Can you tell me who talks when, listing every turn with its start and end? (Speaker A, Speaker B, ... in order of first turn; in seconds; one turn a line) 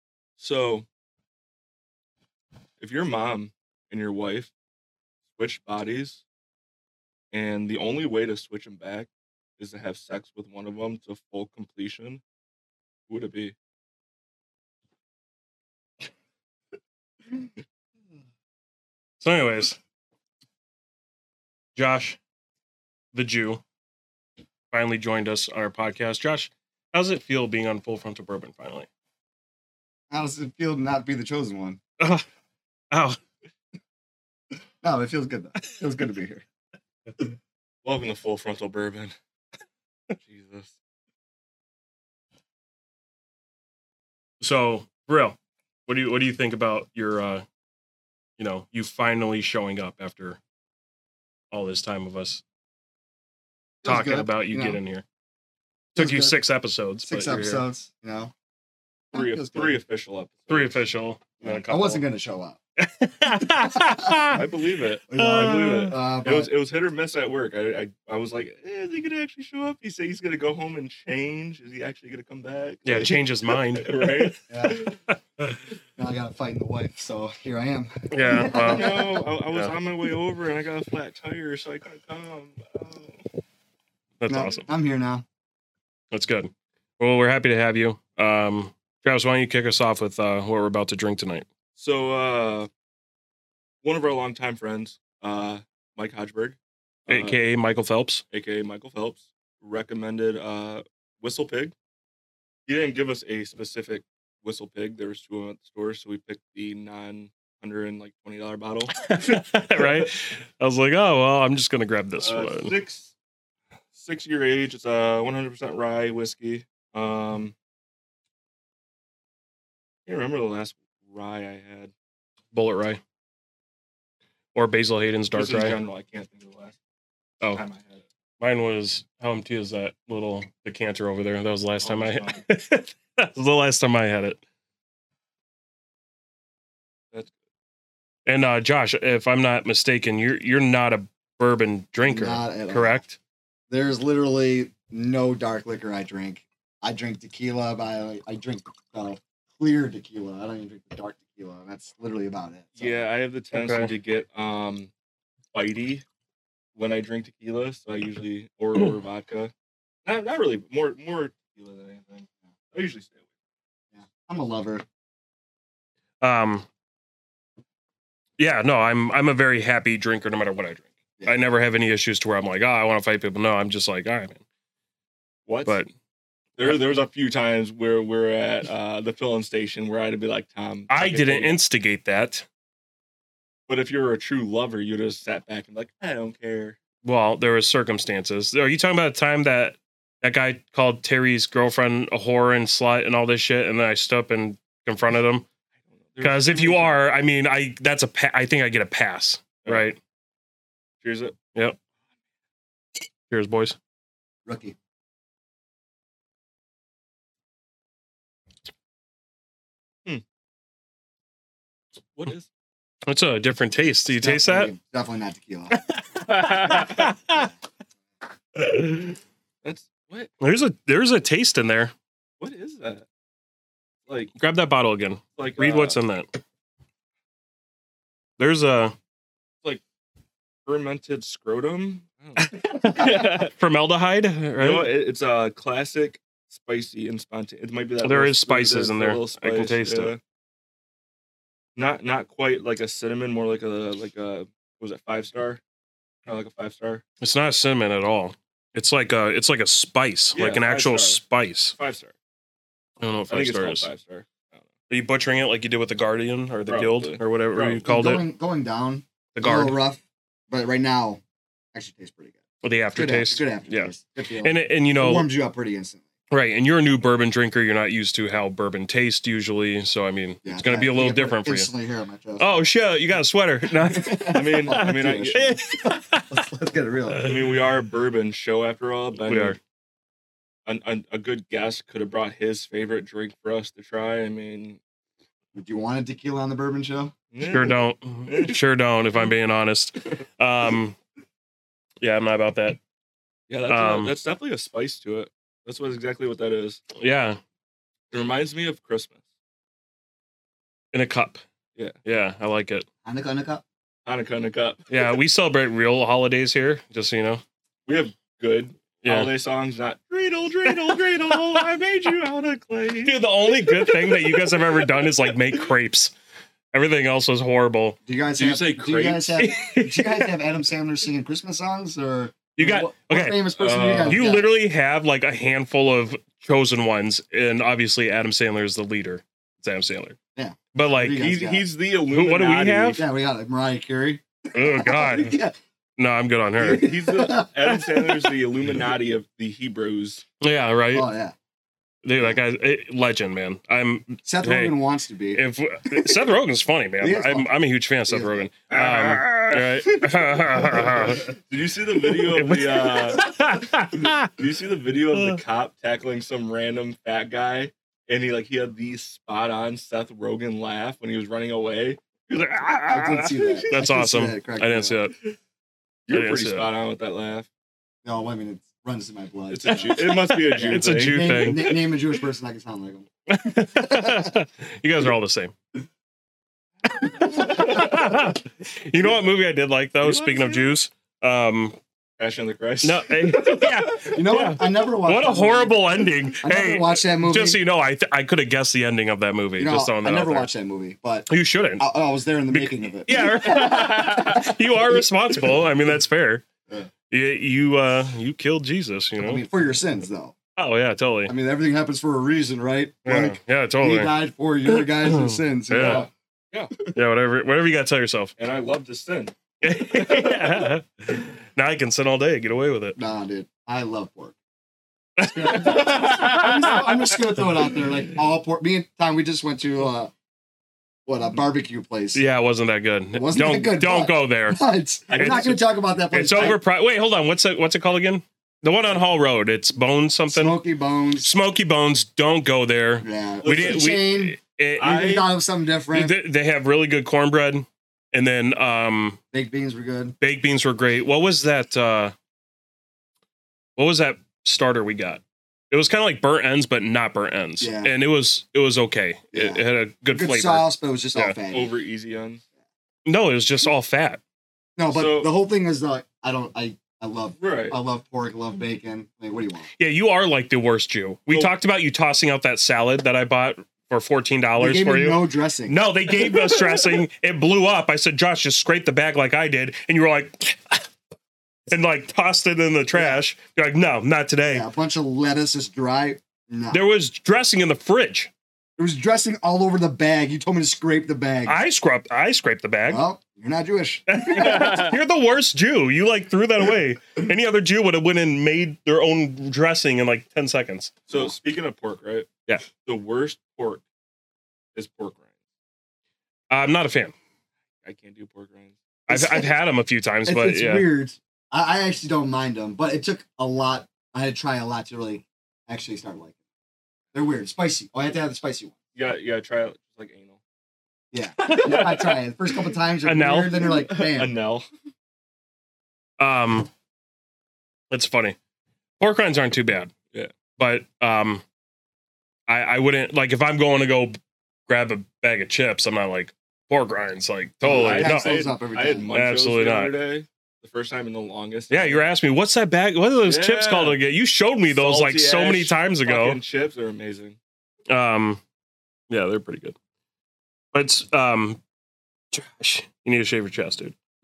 Speaker A: 0.4-0.8
Speaker A: 2.8-4.5
Speaker A: 5.3-6.2
Speaker A: 7.3-12.2
Speaker A: 13.1-13.5
Speaker B: 19.2-19.8
Speaker B: 21.8-22.2
Speaker B: 23.1-23.6
Speaker B: 24.7-28.9
Speaker C: 30.1-31.8
Speaker B: 32.0-32.2
Speaker B: 32.9-33.2
Speaker C: 34.8-36.4
Speaker A: 37.8-39.1
Speaker A: 40.2-40.7
Speaker B: 44.4-45.4
Speaker B: 45.9-47.4
Speaker B: 48.4-50.4
Speaker B: 51.5-52.4
Speaker C: 53.8-54.8
Speaker B: 53.8-55.0
Speaker C: 55.9-56.4
Speaker B: 56.0-57.6
Speaker C: 57.0-58.3
Speaker A: 59.1-60.8
Speaker C: 59.1-59.8
Speaker B: 60.5-62.0
Speaker C: 61.4-62.6
Speaker B: 62.8-64.5
Speaker C: 63.4-64.5
Speaker A: 64.3-75.0
Speaker C: 65.1-66.5
Speaker B: 65.1-66.0
Speaker B: 72.8-75.5
Speaker C: 74.5-74.8
Speaker C: 76.0-79.2
Speaker B: 78.1-78.9
Speaker A: 78.5-83.2
Speaker B: 84.2-84.6
Speaker C: 84.3-85.2
Speaker B: 86.1-91.5
Speaker A: 91.8-92.7
Speaker A: 93.8-97.4
Speaker B: 97.1-98.2
Speaker A: 98.3-101.7
Speaker A: 102.7-110.0
Speaker B: 109.0-112.7
Speaker A: 112.2-113.1
Speaker A: 113.9-117.5
Speaker A: 120.0-121.9
Speaker B: 122.5-123.0
Speaker B: 124.5-125.8
Speaker A: 125.3-126.8
Speaker A: 127.5-128.0
Speaker B: 128.4-134.4
Speaker A: 131.8-132.4
Speaker B: 138.2-143.2
Speaker C: 142.1-143.0
Speaker C: 143.7-153.0
Speaker A: 152.8-154.9
Speaker B: 153.5-153.9
Speaker A: 155.5-156.0
Speaker A: 156.8-159.5
Speaker A: 160.0-163.2
Speaker C: 163.9-164.8
Speaker B: 166.2-166.7
Speaker B: 168.4-174.4
Speaker A: 175.4-175.8
Speaker A: 176.6-181.6
Speaker B: 180.9-182.4
Speaker A: 183.7-186.8
Speaker B: 187.0-195.4
Speaker A: 196.0-197.0
Speaker B: 196.2-200.0
Speaker A: 201.0-201.3
Speaker B: 203.3-203.8
Speaker C: 204.4-204.8
Speaker A: 212.1-212.5
Speaker B: 213.0-214.7
Speaker C: 214.1-215.8
Speaker B: 215.7-217.5
Speaker A: 216.2-217.1
Speaker B: 218.6-219.2
Speaker A: 219.6-220.3
Speaker B: 220.4-221.9
Speaker A: 222.4-223.0
Speaker A: 224.1-224.3
Speaker B: 224.4-226.2
Speaker A: 225.4-226.0
Speaker B: 228.4-228.9
Speaker A: 230.7-233.5
Speaker B: 232.4-234.9
Speaker A: 234.6-240.2
Speaker B: 238.0-240.1
Speaker A: 241.8-245.6
Speaker A: 246.2-247.0
Speaker B: 247.2-251.7
Speaker A: 250.3-251.2
Speaker A: 251.7-252.1
Speaker B: 253.0-253.9
Speaker A: 253.3-254.6
Speaker B: 254.9-258.2
Speaker A: 256.7-257.8
Speaker C: 257.8-261.2
Speaker B: 259.3-259.8
Speaker C: 261.7-262.4
Speaker B: 262.6-265.3
Speaker C: 262.9-266.1
Speaker B: 266.3-271.7
Speaker C: 270.4-272.6
Speaker B: 272.4-276.3
Speaker C: 273.9-277.2
Speaker A: 274.3-275.5
Speaker B: 277.1-277.4
Speaker A: 277.2-279.6
Speaker B: 279.3-279.6
Speaker A: 280.6-284.8
Speaker C: 285.5-287.1
Speaker A: 287.3-287.8
Speaker B: 287.4-291.0
Speaker A: 288.3-288.6
Speaker B: 292.0-292.8
Speaker A: 293.5-296.8
Speaker B: 293.7-294.1
Speaker B: 296.9-297.4
Speaker A: 298.1-299.2
Speaker B: 300.9-301.4
Speaker B: 302.0-302.9
Speaker C: 303.0-303.6
Speaker A: 304.1-304.9
Speaker B: 304.9-307.4
Speaker A: 307.9-313.1
Speaker B: 309.0-309.3
Speaker B: 313.0-316.1
Speaker A: 313.8-314.6
Speaker B: 316.7-318.0
Speaker C: 318.1-324.5
Speaker A: 318.4-319.4
Speaker B: 319.4-320.3
Speaker B: 322.6-323.4
Speaker A: 323.6-324.2
Speaker B: 324.0-330.1
Speaker C: 330.4-331.6
Speaker B: 330.7-331.2
Speaker A: 331.1-333.0
Speaker B: 332.1-333.0
Speaker C: 332.9-335.6
Speaker B: 334.5-335.4
Speaker B: 336.0-336.9
Speaker C: 336.6-338.3
Speaker A: 336.6-340.2
Speaker B: 340.4-341.1
Speaker C: 340.9-341.3
Speaker B: 342.0-344.7
Speaker C: 344.2-346.2
Speaker B: 345.3-351.3
Speaker C: 347.0-347.5
Speaker C: 348.1-348.5
Speaker A: 348.7-353.2
Speaker B: 352.1-354.3
Speaker A: 354.4-363.8
Speaker B: 355.1-355.4
Speaker C: 362.9-364.9
Speaker B: 363.7-365.1
Speaker A: 366.1-367.5
Speaker B: 366.1-366.7
Speaker C: 368.0-373.1
Speaker A: 369.5-371.6
Speaker B: 370.0-371.7
Speaker B: 373.3-375.5
Speaker C: 373.7-374.3
Speaker B: 376.9-381.8
Speaker A: 380.0-380.7
Speaker A: 382.2-383.8
Speaker B: 382.8-390.5
Speaker C: 383.9-387.6
Speaker C: 389.6-394.5
Speaker B: 391.3-391.9
Speaker B: 392.5-396.4
Speaker A: 393.6-394.4
Speaker B: 397.1-399.4
Speaker C: 399.2-400.4
Speaker B: 400.6-401.3
Speaker C: 401.3-406.1
Speaker B: 403.0-404.1
Speaker B: 404.9-406.1
Speaker A: 405.7-406.7
Speaker B: 406.9-408.3
Speaker A: 408.4-409.3
Speaker B: 409.6-413.0
Speaker A: 409.9-410.7
Speaker C: 412.9-414.4
Speaker B: 415.2-416.9
Speaker C: 415.3-420.1
Speaker C: 421.1-422.2
Speaker B: 422.1-424.6
Speaker C: 423.1-426.6
Speaker A: 425.1-425.6
Speaker B: 425.2-425.6
Speaker B: 426.1-430.6
Speaker C: 430.3-431.3
Speaker B: 431.2-435.1
Speaker C: 433.0-436.2
Speaker A: 433.4-433.9
Speaker A: 434.8-435.3
Speaker B: 435.9-439.2
Speaker C: 439.3-440.1
Speaker B: 440.2-442.1
Speaker B: 443.8-451.4
Speaker C: 447.6-447.9
Speaker C: 449.3-451.7
Speaker A: 451.5-452.4
Speaker B: 453.0-454.2
Speaker C: 454.8-459.7
Speaker A: 454.9-455.3
Speaker A: 457.4-457.8
Speaker B: 459.8-470.8
Speaker A: 461.3-461.5
Speaker C: 464.6-465.8
Speaker B: 471.7-474.7
Speaker C: 472.9-473.2
Speaker C: 474.4-476.8
Speaker B: 476.7-478.3
Speaker C: 478.8-481.6
Speaker B: 481.5-483.0
Speaker C: 482.9-484.8
Speaker B: 484.1-490.9
Speaker A: 484.3-484.9
Speaker A: 491.1-493.8
Speaker A: 494.7-495.3
Speaker B: 496.5-497.1
Speaker A: 497.8-498.8
Speaker B: 499.1-500.9
Speaker C: 499.1-499.5
Speaker C: 500.2-506.4
Speaker C: 507.1-508.7
Speaker A: 508.9-510.4
Speaker C: 511.1-514.3
Speaker B: 511.4-512.2
Speaker A: 511.5-511.9
Speaker B: 513.0-513.7
Speaker A: 513.6-514.6
Speaker B: 516.2-516.7
Speaker B: 517.9-518.4
Speaker B: 519.0-519.9
Speaker B: 520.6-521.4
Speaker B: 522.5-528.5
Speaker A: 527.6-532.0
Speaker C: 527.6-529.1
Speaker B: 529.1-529.9
Speaker B: 531.7-536.4
Speaker A: 533.2-534.0
Speaker A: 534.7-537.4
Speaker B: 537.9-538.4
Speaker B: 539.1-539.7
Speaker B: 540.7-541.6
Speaker B: 542.3-543.9